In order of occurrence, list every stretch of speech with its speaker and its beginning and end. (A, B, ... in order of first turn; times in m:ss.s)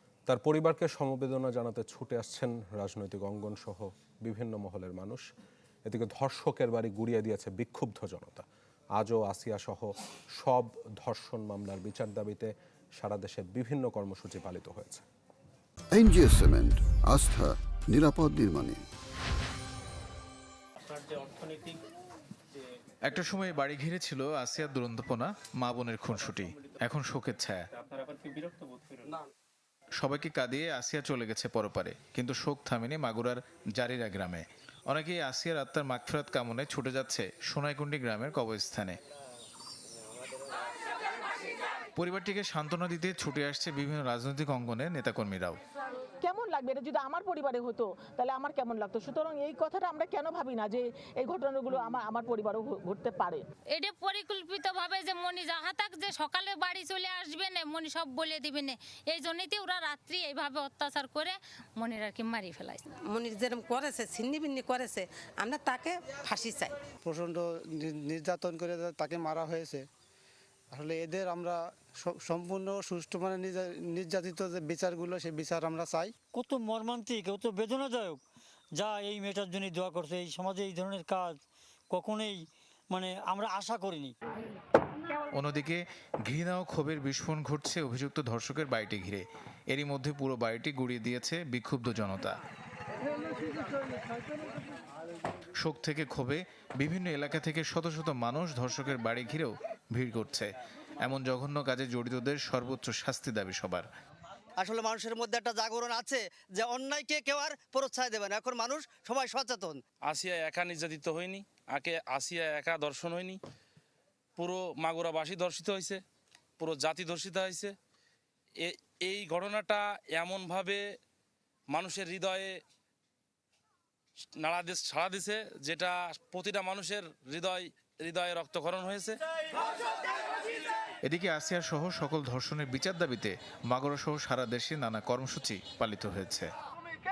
0:00.3-0:05.3 A
0:05.8-0:08.4 A
0:09.0-0:15.0 A
0:15.9-0:18.8 B
0:20.8-0:21.8 C
0:23.0-0:27.6 D
0:27.9-0:29.1 C
0:30.0-0:39.0 D
0:42.0-0:45.6 D
0:46.2-0:53.4 E
0:53.7-1:02.8 F
1:03.0-1:06.8 G
1:07.0-1:09.8 H
1:10.7-1:16.1 H
1:16.3-1:18.2 I
1:18.7-1:21.4 I
1:21.9-1:24.1 I
1:25.3-1:32.4 D
1:35.6-1:43.8 D
1:44.6-1:49.8 J
1:50.0-1:53.4 K
1:54.4-1:56.0 K
1:56.6-1:57.7 K
1:58.6-2:00.8 K
2:01.7-2:02.6 K
2:04.4-2:09.2 K
2:11.0-2:16.5 D